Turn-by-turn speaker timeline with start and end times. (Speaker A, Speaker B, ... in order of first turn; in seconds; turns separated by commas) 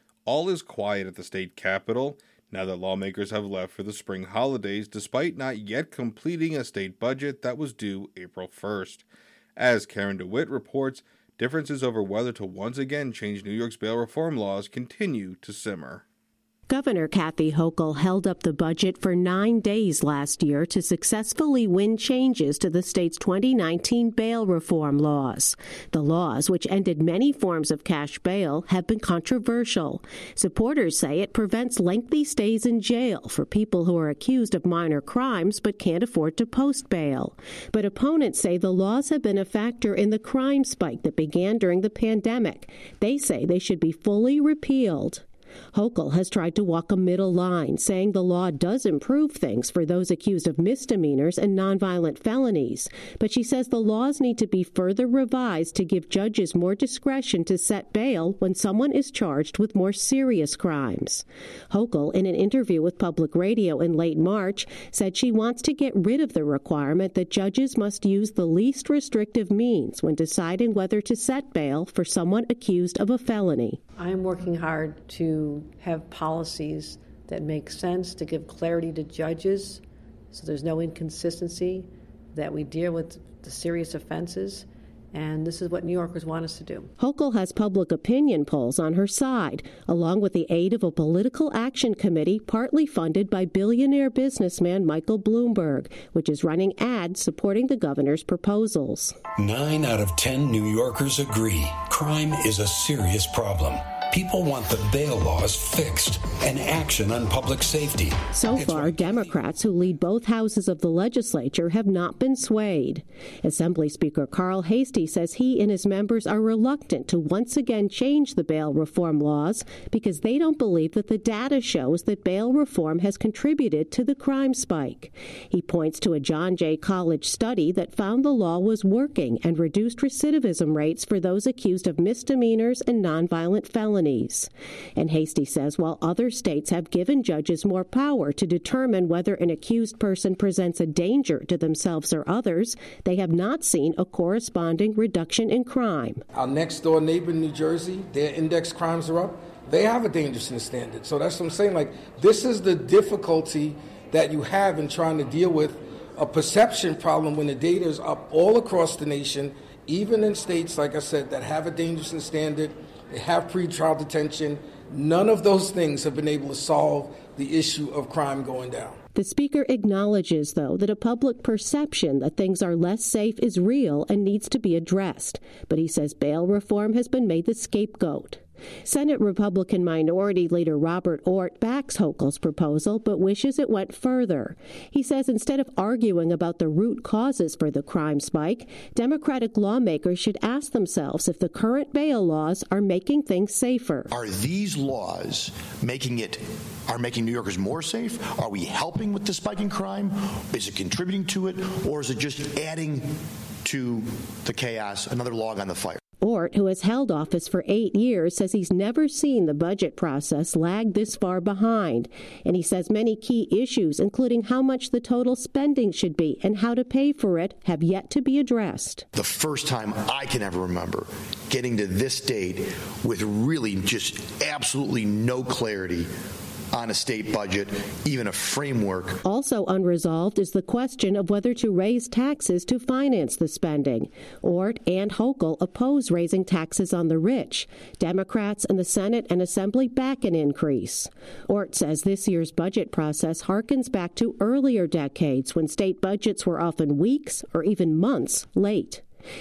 Speaker A: 0.2-9.1, Speaker A: 9.6-16.0, Speaker B: 16.7-73.8, Speaker C: 74.0-86.9, Speaker B: 87.0-99.2, Speaker D: 99.3-109.2, Speaker B: 108.3-146.2, Speaker E: 146.3-169.0, Speaker B: 169.1-194.1, Speaker F: 194.1-203.1, Speaker F: 203.6-206.0, Speaker B: 206.2-219.1, Speaker F: 219.1-226.1, Speaker F: 226.7-229.2, Speaker B: 229.2-249.0